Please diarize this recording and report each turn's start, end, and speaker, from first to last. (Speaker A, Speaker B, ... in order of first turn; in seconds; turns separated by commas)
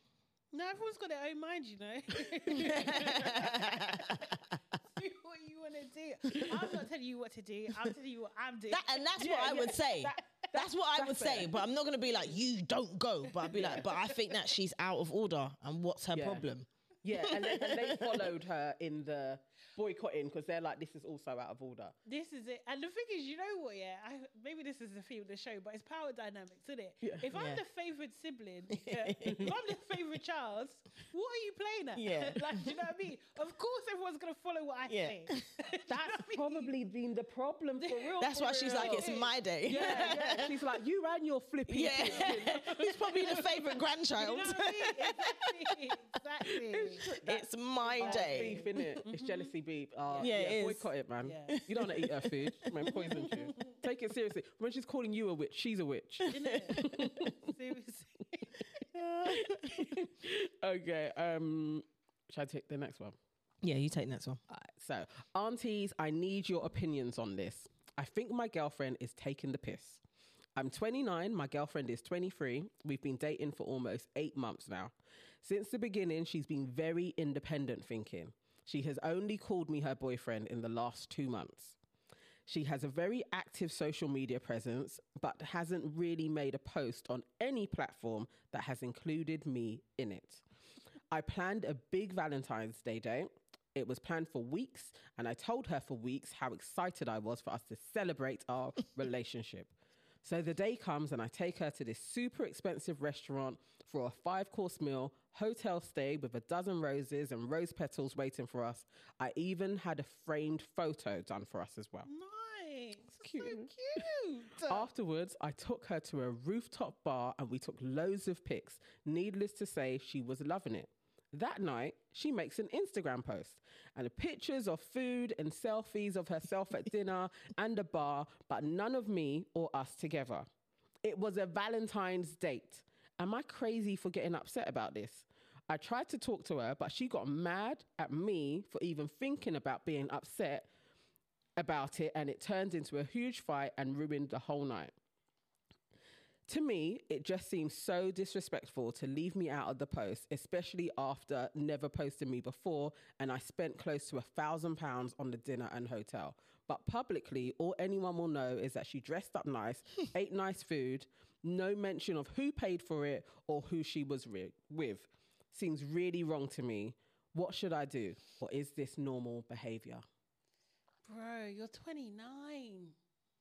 Speaker A: 0.5-9.1, Speaker B: 2.5-4.4, Speaker C: 2.5-3.6, Speaker B: 6.3-6.7, Speaker B: 8.7-18.3, Speaker C: 9.2-11.6, Speaker A: 13.4-14.3, Speaker C: 13.5-13.9, Speaker C: 16.1-16.4, Speaker C: 17.0-21.9, Speaker A: 22.0-36.7, Speaker C: 27.0-27.3, Speaker B: 27.3-27.6, Speaker B: 28.7-29.5, Speaker C: 29.2-29.5, Speaker B: 31.9-32.7, Speaker B: 34.9-35.5, Speaker C: 35.9-43.6, Speaker A: 37.8-40.5, Speaker B: 38.2-40.7, Speaker B: 41.7-45.8, Speaker A: 42.0-42.6, Speaker A: 44.1-47.1, Speaker C: 46.7-47.5, Speaker B: 47.1-49.0, Speaker A: 47.8-49.5, Speaker C: 48.0-57.5, Speaker B: 50.2-50.9, Speaker A: 51.2-51.6, Speaker B: 51.5-53.1, Speaker A: 52.9-53.8, Speaker B: 56.2-57.2, Speaker A: 56.3-58.6, Speaker B: 58.9-59.9, Speaker C: 59.2-63.2, Speaker B: 63.6-64.4, Speaker C: 64.5-70.0, Speaker C: 70.5-81.8, Speaker C: 82.5-90.4, Speaker C: 91.1-99.7, Speaker C: 100.2-112.1, Speaker A: 112.0-114.9, Speaker C: 113.2-114.1, Speaker C: 114.6-130.5, Speaker C: 131.0-140.7, Speaker C: 141.6-144.9, Speaker C: 146.5-170.0, Speaker A: 171.1-172.9